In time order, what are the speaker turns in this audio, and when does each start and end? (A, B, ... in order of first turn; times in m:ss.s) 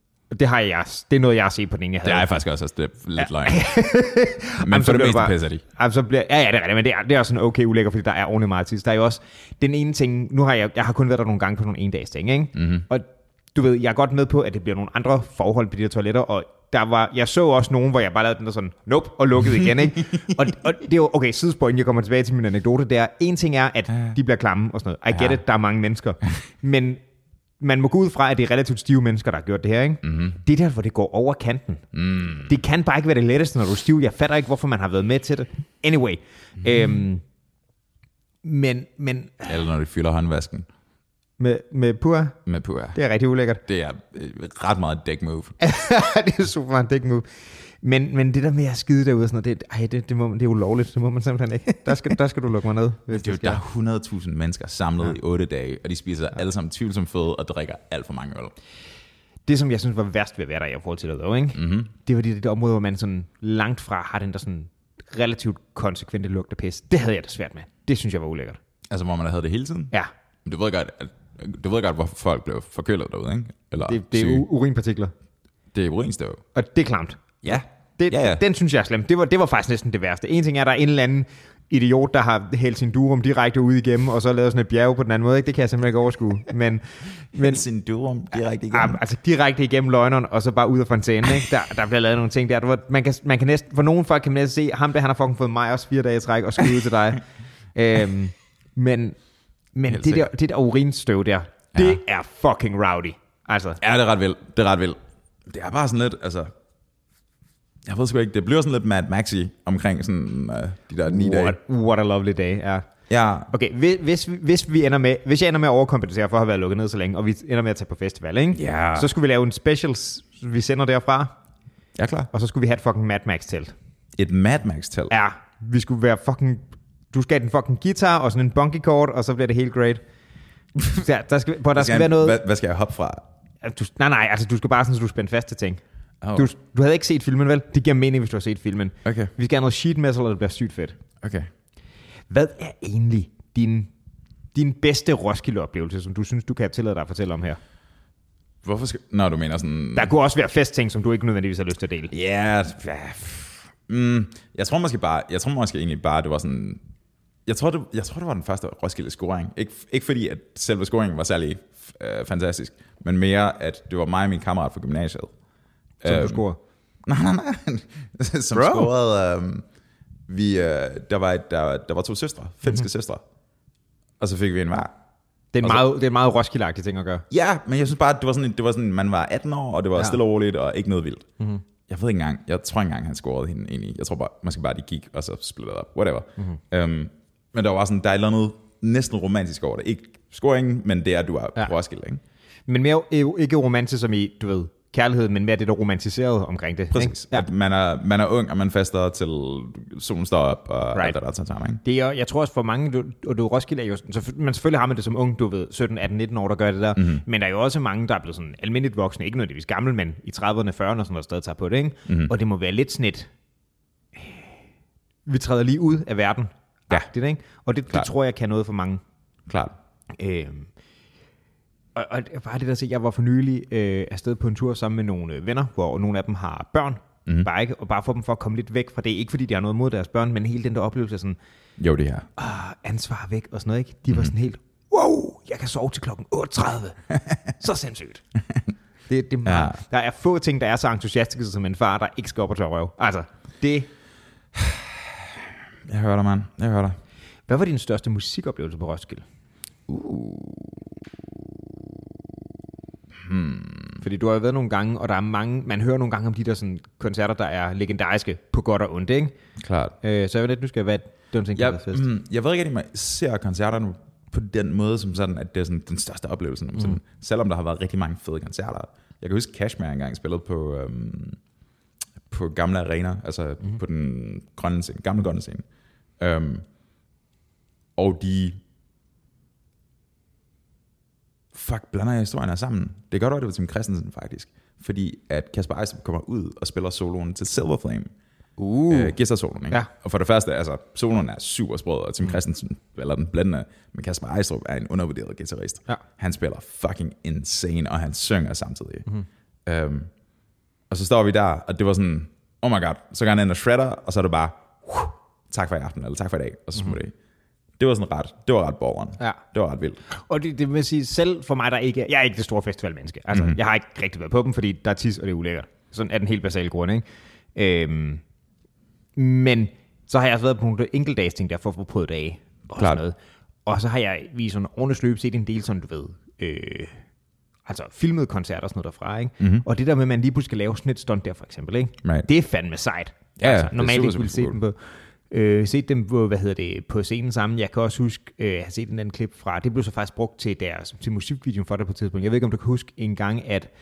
0:00.3-0:02.4 A
0:02.0-0:03.6 B
0:03.2-0:27.0 A
0:04.6-0:05.6 B
0:12.6-0:12.8 B
0:27.6-0:31.9 A
0:30.0-0:30.4 B
0:31.9-0:32.5 B
0:32.4-0:37.2 A
0:38.4-0:39.5 A
0:39.4-0:40.7 B
0:41.4-0:42.4 A
0:42.4-0:43.0 B
0:42.9-0:43.6 A
0:43.7-0:45.6 B
0:45.6-0:47.2 A
0:47.8-0:53.6 A
0:53.1-0:58.5 B
0:59.5-1:08.6 A
1:01.5-1:01.9 B
1:08.9-1:09.9 B
1:10.4-1:14.4 B
1:13.8-1:15.1 A
1:15.7-1:16.4 B
1:16.5-1:27.6 A
1:17.4-1:18.4 B
1:27.3-1:29.0 B
1:28.7-1:37.2 A
1:37.7-1:39.2 A
1:39.7-1:43.8 A
1:39.9-1:40.3 B
1:43.8-1:46.5 B
1:47.8-1:51.6 B
1:51.0-1:52.8 A
1:53.1-1:53.5 B
1:53.5-2:01.3 A
1:58.5-1:59.1 B
2:01.9-2:02.3 B
2:02.3-2:03.7 A
2:04.2-2:05.1 B
2:05.1-2:10.0 A
2:10.9-2:12.4 A
2:11.7-2:13.2 B
2:13.6-2:15.8 A
2:16.2-2:16.5 B
2:16.4-2:21.0 A
2:19.0-2:19.3 B
2:21.2-2:21.5 B
2:22.3-2:23.9 A
2:24.5-2:27.6 A
2:28.6-2:30.1 B
2:29.9-2:32.1 A
2:32.1-2:36.8 B
2:37.4-2:45.3 B
2:46.0-2:46.4 B
2:46.0-2:46.6 A
2:47.0-2:49.6 B
2:48.5-2:48.9 A
2:50.3-2:53.2 B
2:54.2-2:54.9 B
2:55.5-2:57.2 A
2:57.3-3:01.3 B
3:01.9-3:12.2 B
3:12.7-3:17.5 A
3:16.9-3:21.8 B
3:21.8-3:33.3 A
3:27.0-3:27.2 B
3:35.3-3:39.0 A
3:39.5-3:39.7 B
3:40.2-3:40.7 A
3:41.9-3:51.4 A
3:51.8-3:52.3 B
3:52.4-3:58.2 A
3:59.1-4:03.9 A
3:59.4-3:59.8 B
4:04.5-4:07.0 B
4:07.5-4:09.2 A
4:09.9-4:10.9 B
4:13.1-4:14.0 B
4:14.0-4:19.3 A
4:19.6-4:20.0 B
4:20.0-4:22.0 A
4:21.5-4:31.4 B
4:32.3-4:35.6 B
4:36.2-4:36.6 B
4:38.0-4:38.6 B
4:41.5-4:48.1 B
4:48.6-4:49.2 A
4:48.9-4:59.0 B
4:59.6-5:00.1 B
5:00.9-5:07.1 B
5:07.8-5:10.0 B
5:10.1-5:17.0 A
5:13.3-5:13.6 B
5:17.6-5:18.2 A
5:19.2-5:27.0 A
5:27.7-5:34.8 A
5:29.4-5:29.6 B
5:33.4-5:34.6 B
5:35.3-5:43.7 A